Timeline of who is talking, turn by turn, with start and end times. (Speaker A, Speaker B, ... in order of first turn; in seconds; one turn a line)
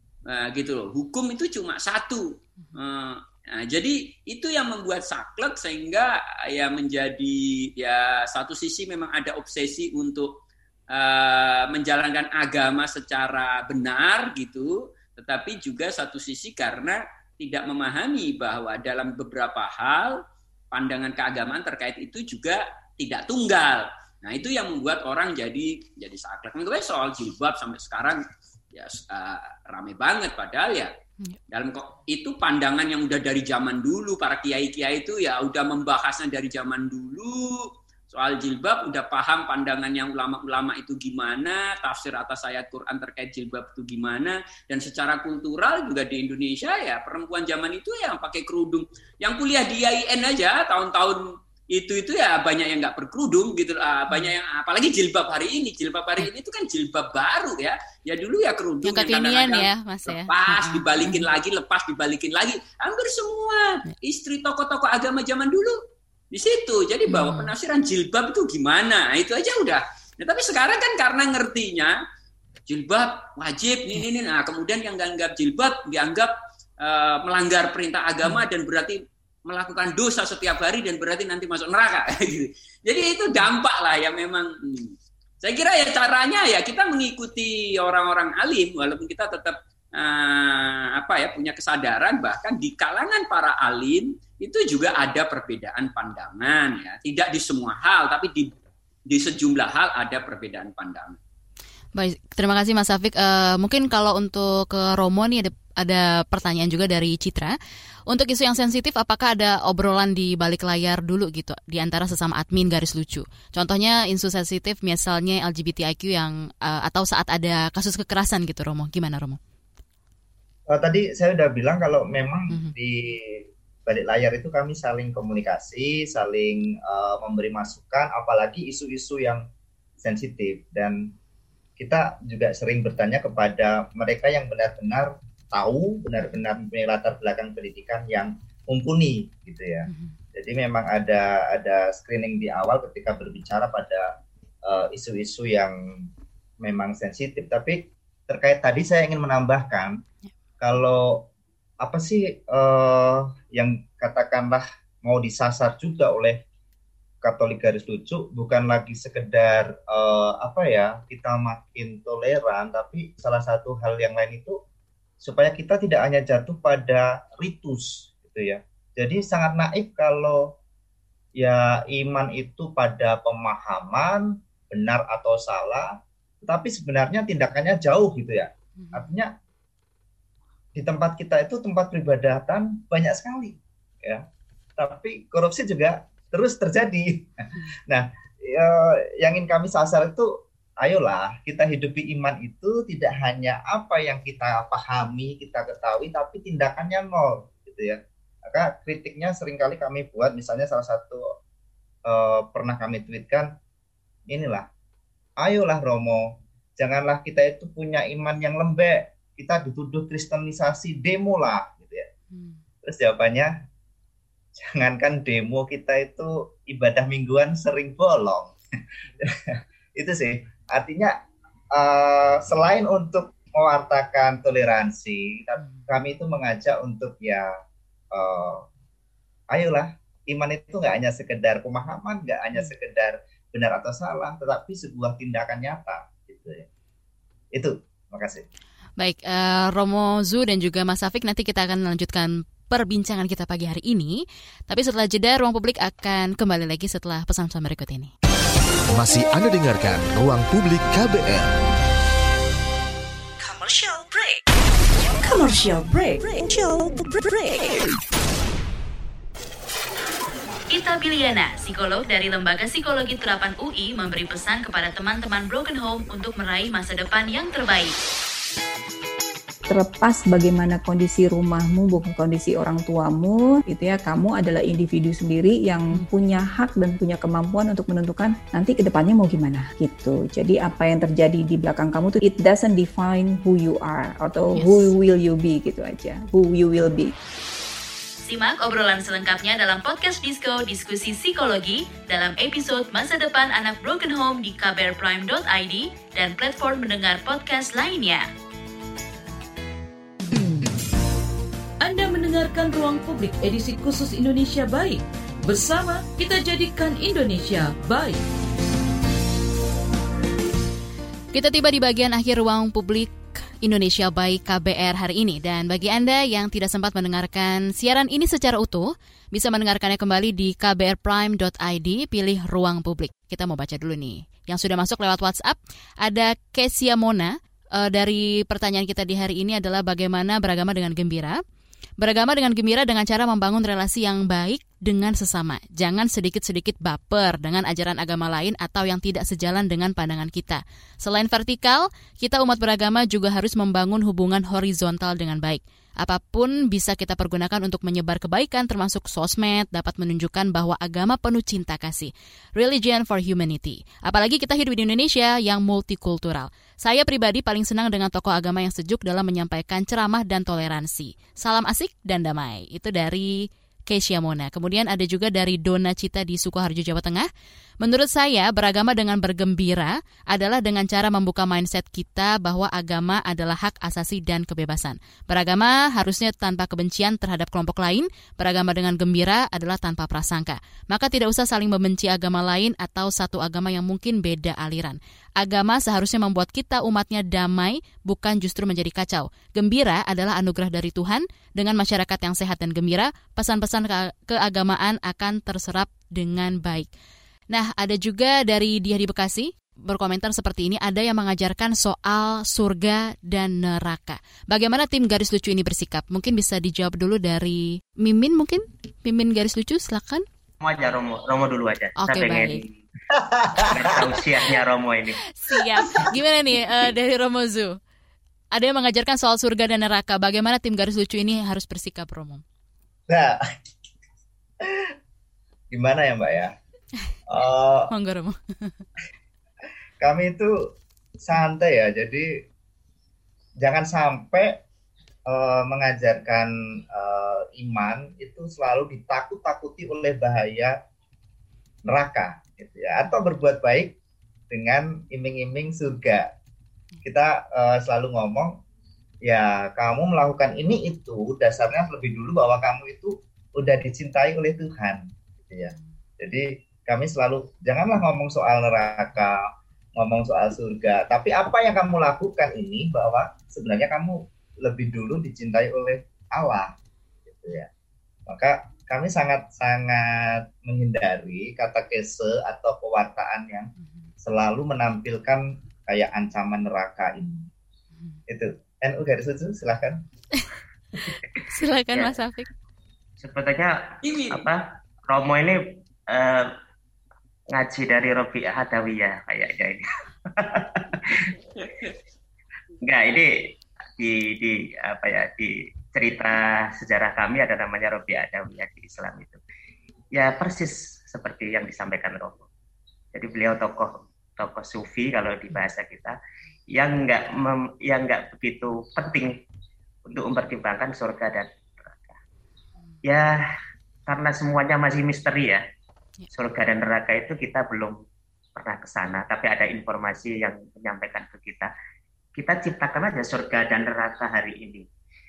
Speaker A: 0.3-2.2
Speaker A: 2.8-10.4
Speaker A: 10.9-20.1
Speaker A: 20.7-28.2
Speaker A: 28.7-30.9
Speaker A: 31.5-51.2
Speaker A: 51.7-65.8
Speaker B: 58.8-61.2
Speaker A: 66.3-71.9
Speaker B: 67.1-67.5
Speaker A: 72.7-84.9
Speaker A: 85.4-98.5
Speaker A: 99.1-101.2
Speaker B: 102.0-107.5
Speaker B: 108.1-119.4
Speaker C: 120.7-129.5
Speaker C: 130.0-131.1
Speaker C: 131.8-144.1
Speaker C: 144.7-146.1
Speaker C: 146.6-150.0
Speaker C: 150.6-151.3
Speaker C: 151.8-156.4
Speaker C: 157.2-164.6
Speaker C: 165.2-170.5
Speaker C: 171.4-179.3
Speaker B: 178.8-179.2
Speaker C: 180.8-184.3
Speaker C: 184.8-201.2
Speaker C: 202.1-203.5
Speaker C: 204.3-204.7
Speaker C: 205.4-212.1
Speaker B: 212.3-212.6
Speaker C: 212.8-213.5
Speaker C: 214.6-218.6
Speaker C: 219.2-221.2
Speaker C: 221.7-227.5
Speaker C: 228.1-228.7
Speaker C: 229.5-236.7
Speaker C: 237.5-238.5
Speaker B: 239.0-248.1
Speaker D: 248.9-251.6
Speaker E: 253.4-254.4
Speaker E: 255.1-257.8
Speaker B: 260.7-268.0
Speaker F: 269.7-287.1
Speaker B: 284.5-284.9
Speaker B: 288.2-298.3
Speaker G: 301.8-308.2
Speaker B: 311.3-331.4
Speaker B: 332.0-367.3
Speaker B: 367.8-396.9
Speaker B: 397.5-410.2
Speaker H: 410.6-412.7
Speaker B: 412.0-412.6
Speaker C: 413.1-414.0
Speaker H: 413.6-415.2
Speaker B: 415.3-417.8
Speaker B: 418.5-422.4
Speaker C: 423.1-423.4
Speaker C: 424.6-424.9
Speaker C: 425.7-426.5
Speaker C: 427.3-427.9
Speaker B: 427.9-428.7
Speaker C: 430.0-430.5
Speaker C: 431.2-432.4
Speaker C: 433.6-434.6
Speaker C: 435.3-440.8
Speaker C: 441.9-443.9
Speaker C: 444.5-446.3
Speaker C: 447.0-448.5
Speaker C: 449.2-459.5
Speaker C: 460.0-466.7
Speaker C: 467.3-467.7
Speaker C: 468.3-477.5
Speaker C: 478.3-480.0
Speaker B: 481.5-482.5
Speaker H: 483.2-485.6
Speaker A: 484.0-484.4
Speaker H: 486.1-486.5
Speaker H: 487.5-491.3
Speaker H: 492.8-493.3
Speaker H: 494.0-499.4
Speaker H: 500.1-502.5
Speaker H: 503.1-506.2
Speaker H: 506.7-509.3
Speaker H: 510.1-512.2
Speaker H: 513.0-513.4
Speaker H: 514.1-515.6
Speaker H: 516.3-518.0
Speaker H: 518.6-521.7
Speaker H: 522.4-524.9